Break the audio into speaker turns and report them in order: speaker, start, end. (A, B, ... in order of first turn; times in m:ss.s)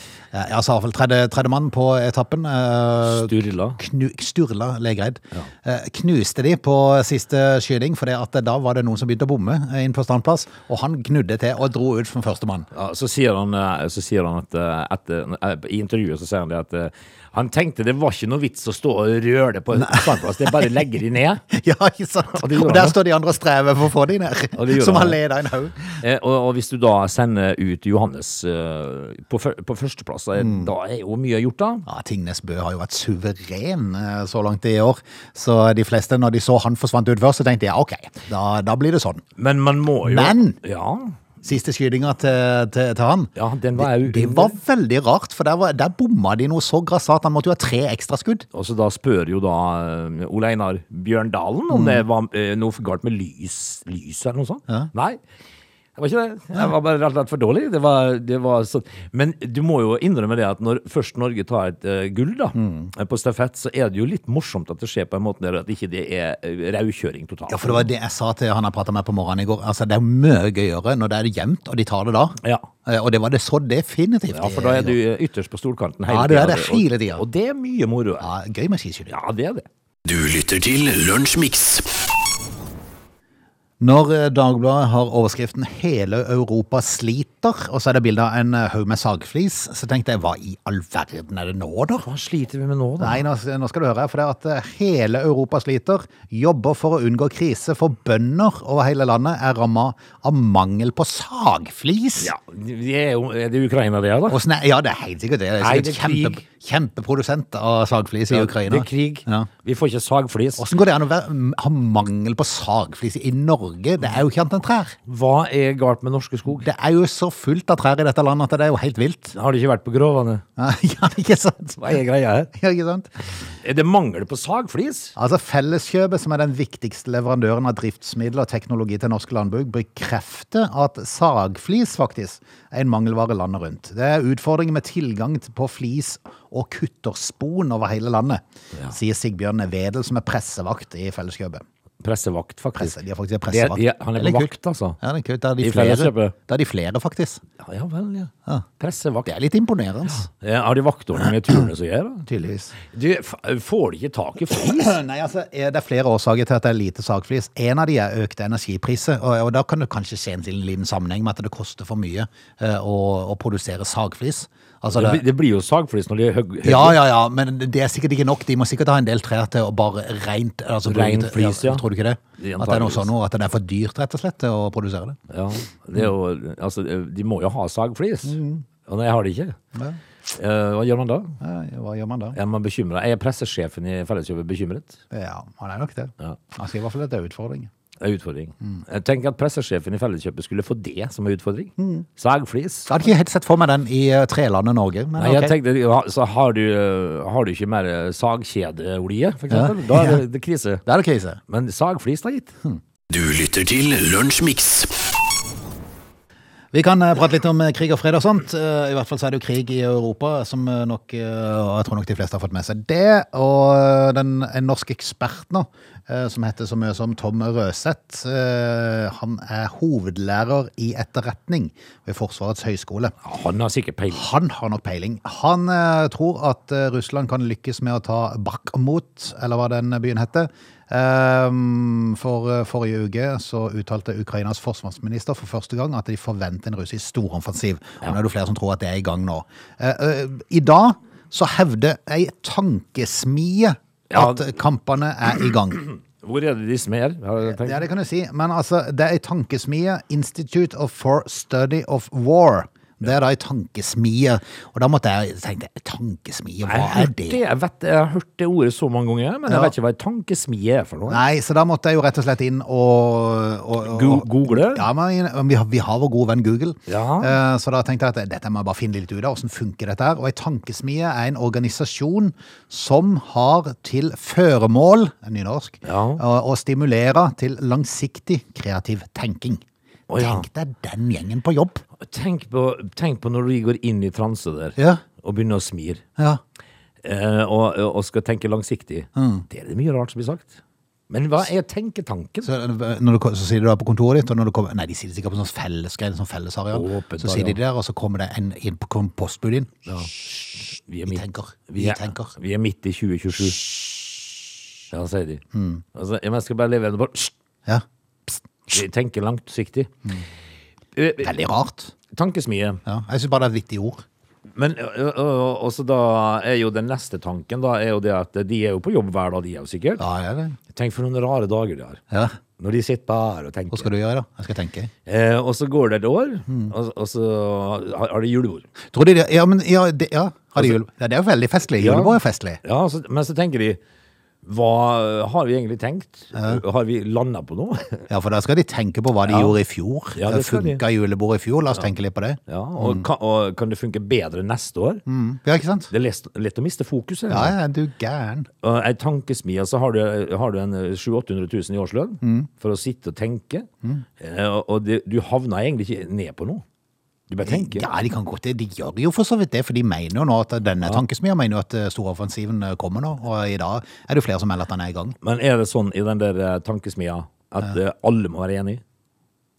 0:00.3-0:12.7 A
0:03.1-0:03.8 B
0:12.7-0:21.4 B
0:19.8-0:20.7 A
0:21.5-0:26.0 A
0:22.3-0:23.0 B
0:24.6-0:25.2 B
0:26.0-0:31.9 B
0:30.4-0:30.7 A
0:31.9-0:39.2 A
0:39.4-0:41.2 B
0:40.0-0:40.6 A
0:41.4-0:48.5 A
0:43.4-0:44.6 B
0:48.5-0:55.2 B
0:51.7-0:52.0 A
0:56.0-1:07.9 B
1:02.6-1:02.9 A
1:07.5-1:15.0 A
1:12.4-1:12.7 B
1:14.3-1:18.3 B
1:16.1-1:17.2 A
1:18.2-1:19.2 A
1:19.1-1:19.7 B
1:20.0-1:22.0 C
1:23.8-1:32.1 A
1:32.0-1:33.2 B
1:33.0-1:42.3 A
1:42.2-1:44.4 B
1:44.3-1:49.5 A
1:45.6-1:46.4 B
1:48.3-1:50.7 B
1:50.6-1:55.0 A
1:55.1-1:56.7 B
1:56.6-1:59.4 A
1:59.4-2:00.4 B
2:00.6-2:02.0 A
2:01.8-2:02.5 B
2:02.5-2:03.1 A
2:03.6-2:05.2 B
2:05.2-2:21.6 A
2:22.0-2:23.0 B
2:22.8-2:27.4 A
2:23.5-2:25.0 B
2:25.6-2:26.3 B
2:27.6-2:29.3 B
2:29.3-2:30.3 A
2:30.3-2:32.3 B
2:32.3-2:32.7 A
2:32.8-2:34.9 B
2:34.5-2:45.2 A
2:44.9-2:47.0 B
2:46.6-2:55.2 A
2:50.9-2:51.8 B
2:52.4-2:53.1 B
2:55.3-2:59.6 B
2:58.2-2:58.6 A
3:00.4-3:01.4 B
3:01.4-3:02.4 A
3:02.4-3:05.0 B
3:05.1-3:07.7 A
3:08.0-3:13.1 B
3:11.8-3:12.1 A
3:12.9-3:15.5 A
3:15.2-3:20.8 B
3:19.5-3:20.2 A
3:20.9-3:21.4 A
3:21.5-3:22.5 B
3:23.1-3:25.1 C
3:26.7-3:43.1 A
3:43.2-3:44.3 B
3:44.1-4:05.9 A
4:04.1-4:04.5 B
4:05.8-4:07.8 B
4:07.5-4:17.4 A
4:16.7-4:21.2 B
4:21.1-4:39.6 A
4:23.9-4:24.8 B
4:26.9-4:27.4 B
4:35.8-4:36.2 B
4:40.1-4:40.4 B
4:40.2-4:41.8 A
4:42.0-4:46.0 B
4:44.8-4:45.0 A
4:47.0-4:50.5 B
4:49.2-4:49.4 A
4:51.1-4:52.5 B
4:52.4-4:59.9 A
4:56.7-4:57.6 B
4:59.9-5:00.1 B
5:00.9-5:03.8 B
5:01.1-5:02.4 A
5:04.9-5:05.4 B
5:05.5-5:05.8 A
5:06.0-5:07.3 B
5:08.7-5:09.9 B
5:11.0-5:11.3 B
5:11.2-5:11.9 A
5:12.1-5:12.8 B
5:12.9-5:14.0 A
5:14.6-5:20.0 B
5:20.0-5:20.6 A
5:20.7-5:22.0 B
5:22.1-5:22.4 A
5:22.6-5:23.9 B
5:23.7-5:24.9 A
5:25.1-5:28.7 B
5:28.9-5:32.6 A
5:31.8-5:33.8 B
5:34.4-5:38.1 B
5:36.4-5:36.6 A
5:38.1-5:43.0 A
5:39.3-5:39.6 B
5:40.2-5:40.8 B
5:42.5-5:45.0 B
5:45.1-5:45.9 A
5:45.9-5:47.6 B
5:47.3-5:48.5 A
5:48.6-5:53.7 B
5:52.2-5:52.5 A
5:54.2-5:56.6 B
5:57.3-5:57.9 B
5:57.4-6:05.2 A
6:05.2-6:08.8 B